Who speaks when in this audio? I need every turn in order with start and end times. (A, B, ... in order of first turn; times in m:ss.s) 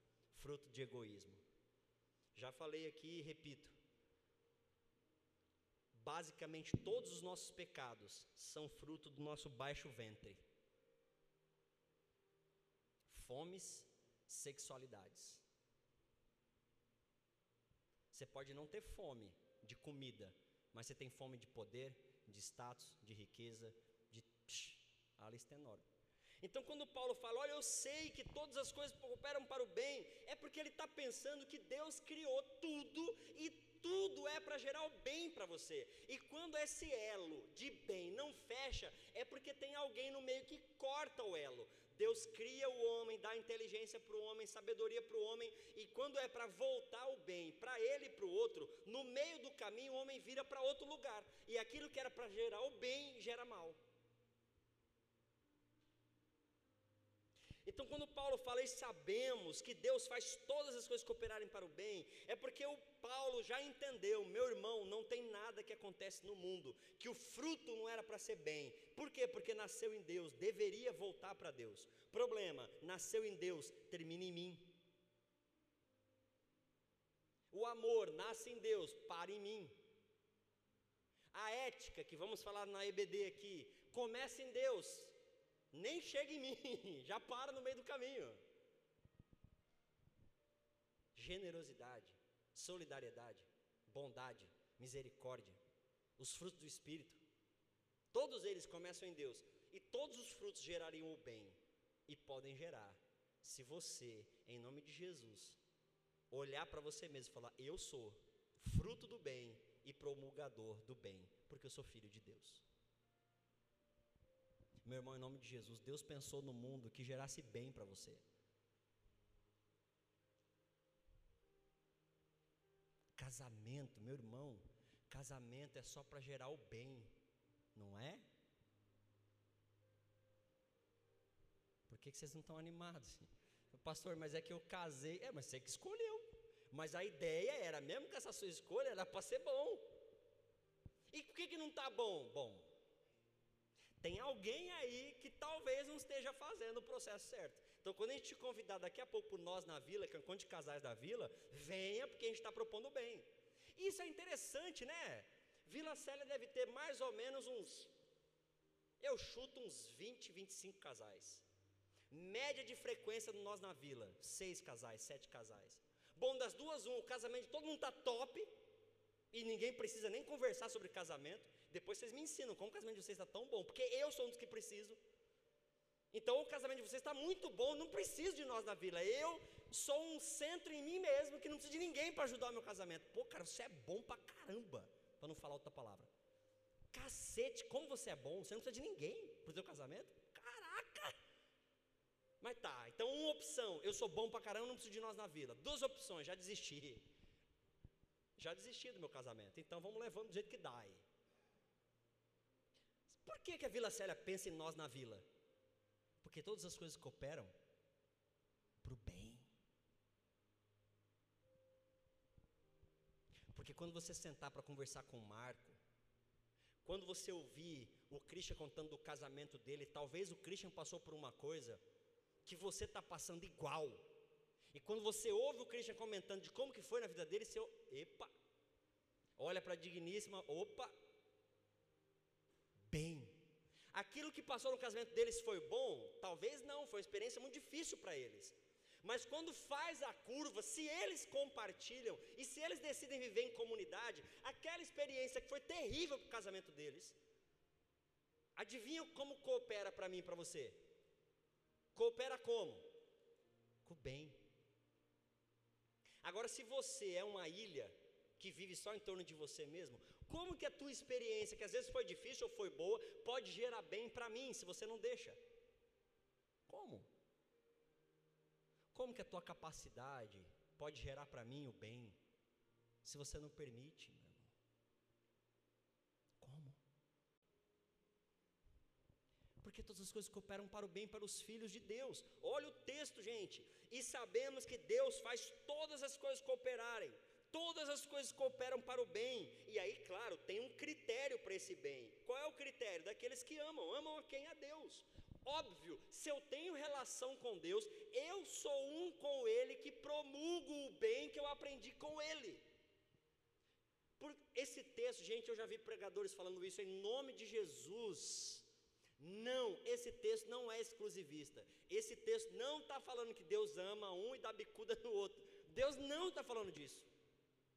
0:00.3-0:01.4 A
0:02.3-0:03.7 A
0:05.9-0:10.4 A
0:13.1-0:15.4 A
0:18.1-0:25.9 A
0:26.4-0:53.8 A
0:57.6-1:14.8 A
1:17.5-1:19.8 A
1:21.3-1:25.1 A
1:25.7-1:28.4 A
1:31.1-1:35.6 A
1:36.2-1:37.2 A
1:38.1-1:45.6 A
1:46.3-1:52.6 A
1:54.8-1:58.2 A
2:03.2-2:07.2 A
2:07.7-2:08.2 A
2:11.9-2:19.9 A
2:21.1-2:22.7 A
2:24.0-2:37.9 A
2:39.0-2:41.4 A
2:42.1-2:48.5 A
2:49.3-2:55.0 A
2:56.1-3:06.1 A
3:06.9-3:11.2 A
3:12.4-3:17.1 A
3:18.4-3:21.0 A
3:23.1-3:25.2 A
3:26.2-3:27.5 A
3:28.8-3:29.5 A
3:33.5-3:35.8 A
3:36.8-3:41.8 A
3:42.4-3:44.1 A
3:44.7-3:48.3 A
3:49.4-3:50.9 A
3:52.8-4:07.2 A
4:08.6-4:10.9 A
4:11.9-4:12.9 A
4:13.8-4:14.5 A
4:16.2-4:25.4 A
4:26.7-4:27.1 A
4:28.9-4:32.2 A
4:33.0-4:34.5 A
4:36.4-4:36.8 A
4:39.6-5:02.6 A
5:04.2-5:17.1 A